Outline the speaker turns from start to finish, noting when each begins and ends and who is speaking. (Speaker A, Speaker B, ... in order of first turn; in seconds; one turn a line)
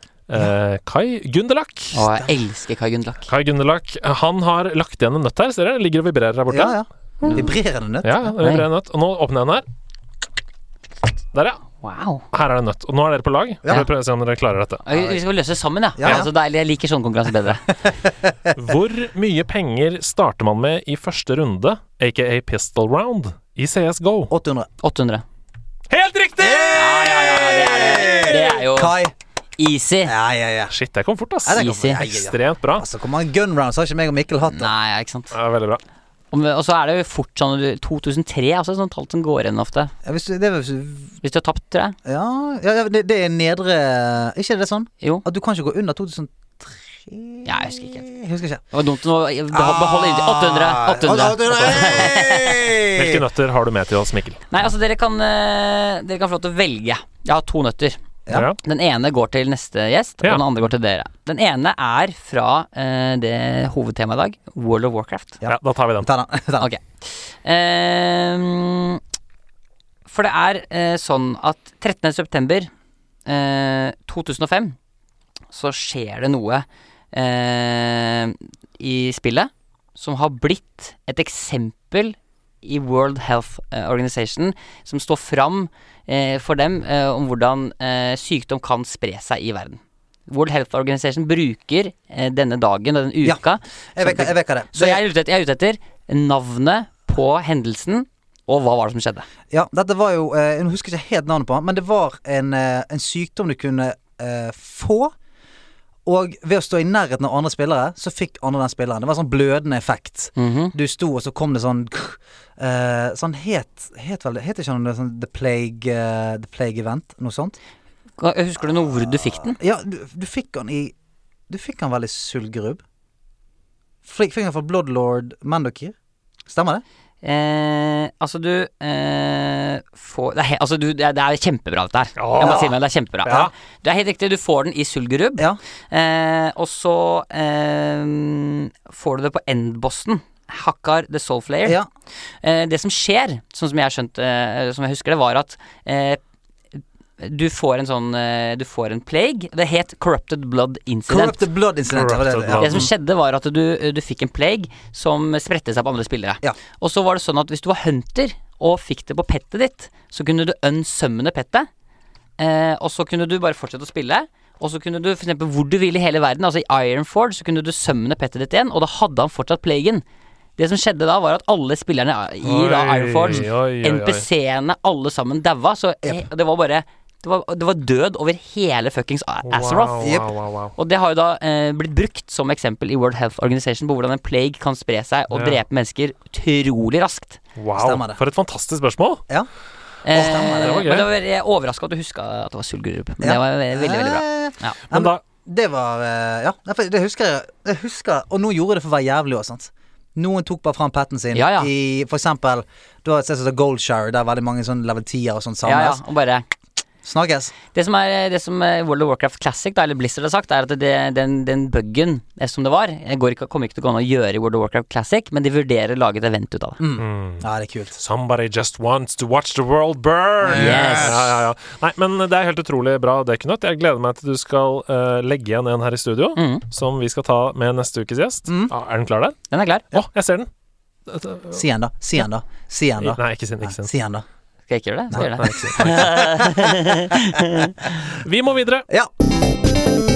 Speaker A: 0.3-2.0
Speaker B: 1.9-3.3
Speaker C: 2.0-2.4
Speaker A: 3.3-6.8
Speaker C: 6.5-8.2
Speaker A: 8.0-9.7
Speaker B: 8.4-8.7
Speaker A: 11.3-11.6
Speaker B: 11.8-12.3
Speaker A: 12.3-14.8
Speaker B: 14.8-17.6
Speaker C: 16.0-16.3
Speaker A: 18.5-24.3
Speaker C: 24.3-24.7
Speaker B: 24.8-25.2
Speaker A: 25.9-28.5
Speaker C: 26.4-26.9
Speaker B: 26.7-29.0
Speaker C: 27.7-29.1
Speaker B: 29.6-30.1
Speaker C: 30.1-30.7
Speaker A: 30.7-32.9
Speaker C: 31.5-34.7
Speaker B: 31.6-32.0
Speaker B: 34.5-35.4
Speaker A: 35.3-35.8
Speaker B: 36.3-39.9
Speaker C: 40.0-41.1
Speaker B: 41.2-42.0
Speaker C: 42.0-48.6
Speaker B: 47.5-48.0
Speaker B: 48.7-52.6
Speaker C: 49.5-53.2
Speaker A: 51.5-52.2
Speaker A: 52.9-54.5
Speaker B: 54.5-58.0
Speaker A: 58.3-58.6
Speaker B: 58.6-65.4
Speaker C: 65.4-66.7
Speaker A: 65.5-66.1
Speaker B: 66.6-69.0
Speaker B: 70.1-72.7
Speaker B: 73.3-74.8
Speaker B: 75.5-99.3
Speaker C: 94.0-95.0
Speaker C: 99.5-105.1
Speaker C: 106.0-117.6
Speaker B: 110.4-110.7
Speaker B: 118.2-119.6
Speaker C: 119.3-121.0
Speaker C: 121.5-122.8
Speaker C: 124.0-126.0
Speaker C: 126.5-126.8
Speaker B: 127.2-141.8
Speaker A: 132.2-132.7
Speaker C: 132.4-132.7
Speaker B: 142.4-146.2
Speaker B: 146.8-151.4
Speaker C: 151.1-152.9
Speaker A: 151.9-152.9
Speaker B: 152.6-161.7
Speaker B: 162.4-170.0
Speaker B: 170.6-180.1
Speaker A: 172.4-174.3
Speaker A: 179.5-180.8
Speaker C: 180.0-180.3
Speaker B: 180.8-187.4
Speaker A: 185.3-185.6
Speaker A: 187.6-189.2
Speaker C: 187.8-188.2
Speaker B: 190.1-194.8
Speaker C: 190.1-190.8
Speaker A: 190.6-191.1
Speaker C: 193.2-206.0
Speaker A: 194.9-195.2
Speaker B: 201.3-201.7
Speaker B: 205.6-206.4
Speaker C: 207.0-207.5
Speaker B: 207.7-216.8
Speaker C: 216.8-218.0
Speaker A: 217.0-229.4
Speaker C: 220.4-221.3
Speaker B: 220.5-221.2
Speaker B: 226.4-226.7
Speaker C: 228.5-228.7
Speaker B: 229.5-229.9
Speaker A: 229.9-230.5
Speaker A: 231.1-231.6
Speaker C: 231.5-234.2
Speaker A: 233.0-233.9
Speaker B: 234.7-237.8
Speaker C: 235.1-236.9
Speaker A: 235.2-236.2
Speaker A: 238.0-238.9